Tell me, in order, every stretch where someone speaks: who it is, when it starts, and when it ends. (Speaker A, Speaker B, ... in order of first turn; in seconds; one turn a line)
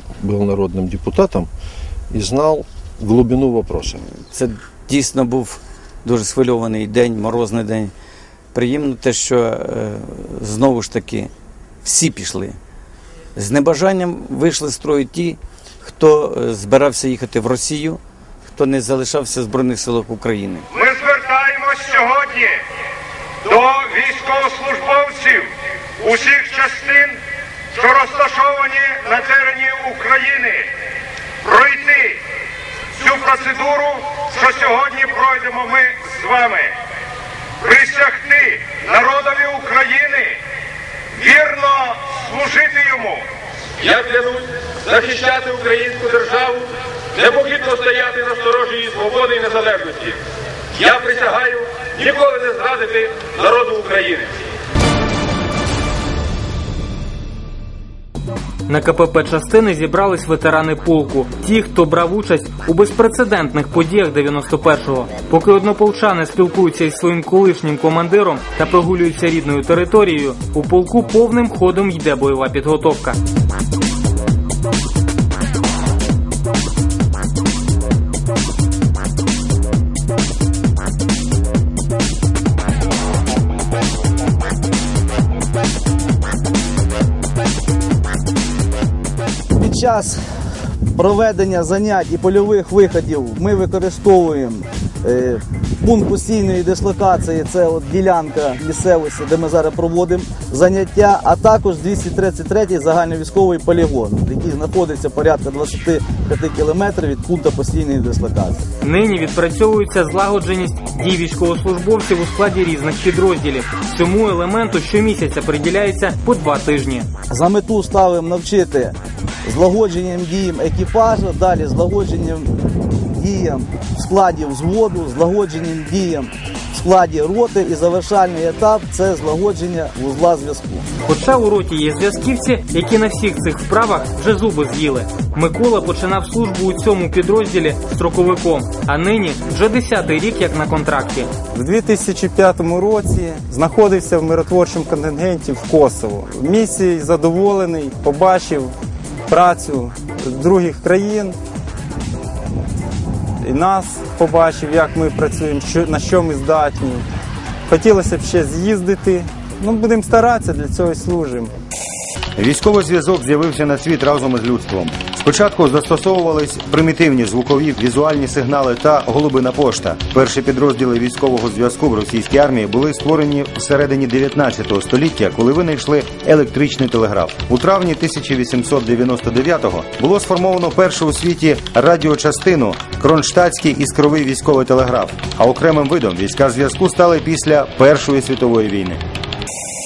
Speaker A: 0.2-1.5
Speaker A: 2.1-4.0
Speaker B: 4.2-7.9
Speaker B: 8.5-11.3
Speaker B: 11.8-12.6
Speaker B: 13.4-18.0
Speaker B: 18.5-20.7
Speaker C: 20.8-22.6
Speaker C: 23.5-25.5
Speaker C: 26.0-27.1
Speaker C: 27.7-30.7
Speaker C: 31.5-32.2
Speaker C: 33.0-36.7
Speaker C: 37.6-40.4
Speaker C: 41.2-43.2
Speaker D: 43.8-50.2
Speaker D: 50.8-54.4
Speaker E: 58.7-73.2
Speaker F: 89.5-90.2
Speaker F: 91.0-108.6
Speaker E: 108.8-117.1
Speaker F: 117.3-122.5
Speaker F: 123.2-130.8
Speaker E: 131.1-141.3
Speaker G: 141.5-148.8
Speaker G: 149.3-151.4
Speaker G: 153.4-157.1
Speaker G: 157.7-161.5
Speaker H: 162.4-189.0